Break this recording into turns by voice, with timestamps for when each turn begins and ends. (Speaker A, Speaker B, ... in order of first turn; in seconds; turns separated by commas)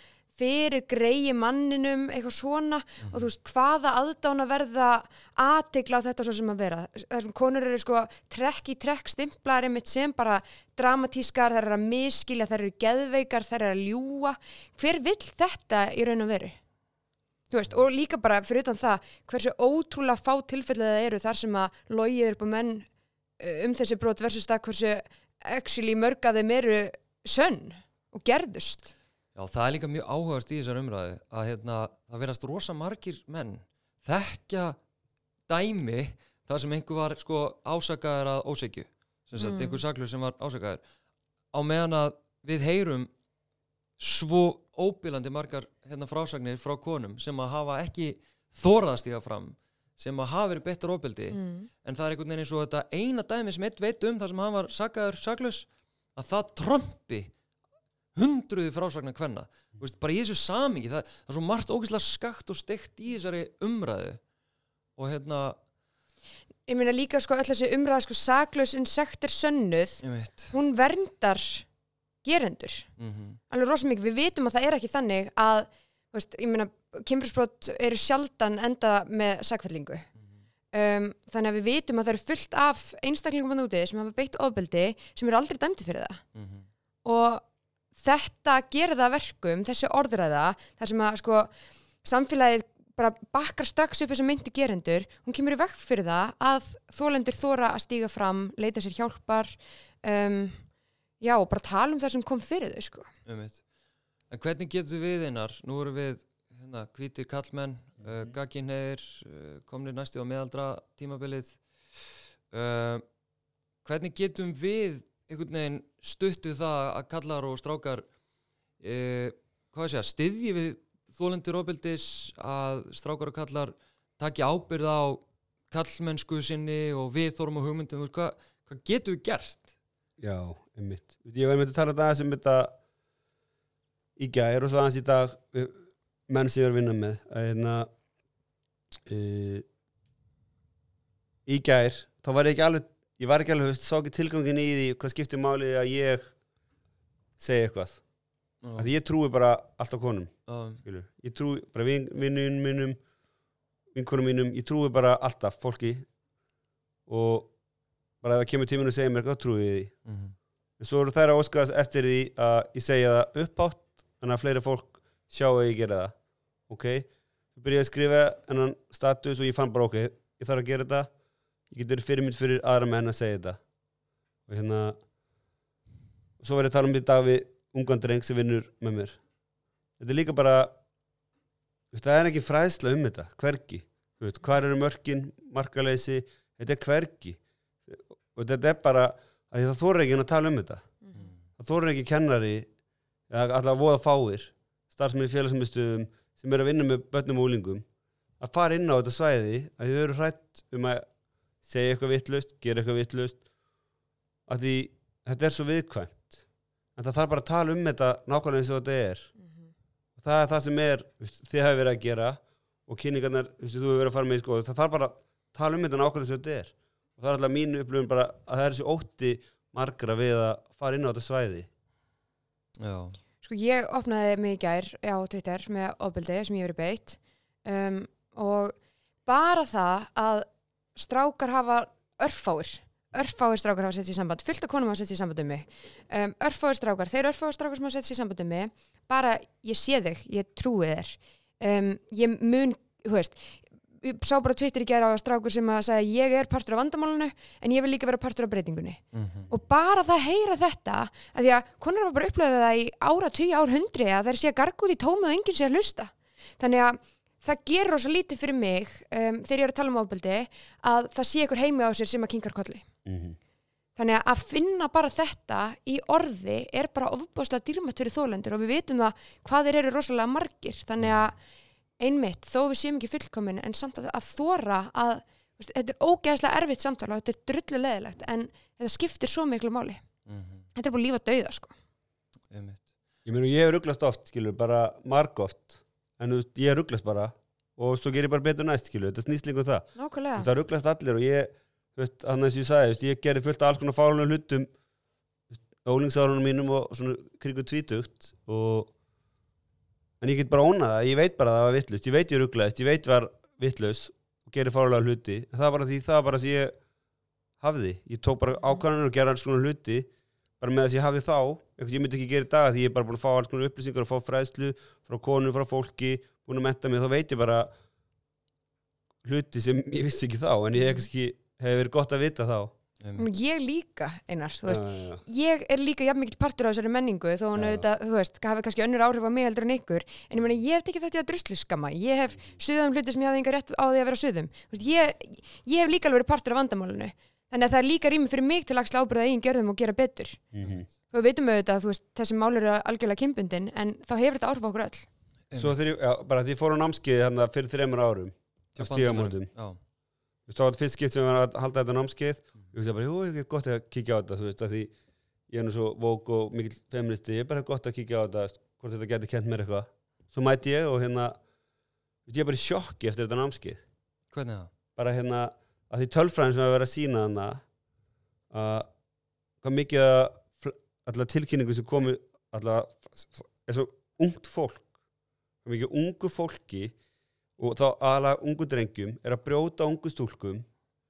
Speaker A: 0.4-16.6, Speaker A: 17.5-22.9, Speaker A: 23.4-28.9, Speaker B: 29.3-34.8, Speaker B: 35.5-40.8, Speaker A: 39.4-39.8, Speaker B: 41.5-43.1, Speaker B: 44.0-57.3, Speaker A: 51.3-51.7, Speaker B: 58.1-64.2, Speaker B: 65.0-65.6, Speaker A: 66.7-71.7, Speaker B: 70.0-70.5, Speaker A: 72.2-72.9, Speaker B: 73.0-73.4, Speaker A: 73.5-80.0, Speaker A: 80.7-86.2, Speaker B: 86.3-86.7, Speaker A: 87.0-91.5, Speaker A: 92.0-100.7, Speaker A: 101.2-103.1, Speaker B: 103.2-103.6, Speaker B: 104.3-111.6, Speaker B: 112.5-113.0, Speaker B: 113.8-118.0, Speaker B: 118.8-129.7, Speaker C: 130.2-132.7, Speaker C: 134.2-137.9, Speaker C: 139.1-139.6, Speaker C: 141.4-146.3, Speaker C: 147.4-148.0, Speaker B: 148.6-148.9, Speaker C: 148.8-150.3, Speaker B: 150.5-150.8, Speaker C: 150.8-153.0, Speaker C: 153.9-156.1, Speaker C: 157.1-157.5, Speaker C: 158.2-159.9, Speaker B: 160.1-160.3, Speaker C: 160.8-166.1, Speaker C: 166.7-171.1, Speaker C: 171.7-173.6, Speaker C: 174.5-175.0, Speaker C: 176.4-179.2, Speaker C: 180.0-180.7, Speaker C: 181.9-190.9, Speaker C: 191.6-192.7, Speaker C: 193.3-197.8, Speaker C: 198.4-201.1, Speaker C: 201.6-203.4, Speaker C: 204.5-206.4, Speaker C: 206.9-209.3, Speaker C: 210.2-221.7, Speaker B: 222.8-223.2, Speaker A: 223.4-228.7, Speaker A: 229.2-262.8, Speaker B: 249.1-249.5, Speaker C: 263.1-263.4, Speaker A: 264.0-271.4, Speaker A: 272.0-280.0, Speaker B: 280.3-280.6, Speaker A: 280.7-281.7, Speaker B: 282.5-282.8, Speaker C: 283.2-294.7, Speaker A: 289.9-290.5, Speaker C: 295.6-298.9, Speaker C: 300.2-306.8, Speaker C: 307.6-310.1, Speaker C: 310.6-317.7, Speaker C: 319.2-322.7, Speaker B: 323.0-323.3, Speaker A: 323.2-340.4, Speaker C: 324.7-325.2, Speaker C: 327.5-327.8, Speaker C: 340.5-340.9, Speaker A: 341.1-345.1, Speaker B: 345.5-345.9, Speaker C: 345.6-349.5, Speaker B: 348.8-349.8, Speaker C: 350.5-354.9, Speaker C: 355.5-361.4, Speaker C: 362.3-363.8, Speaker B: 364.3-364.7, Speaker C: 365.0-367.6, Speaker C: 368.5-368.9, Speaker C: 369.6-374.9, Speaker C: 375.6-376.9, Speaker C: 377.6-380.6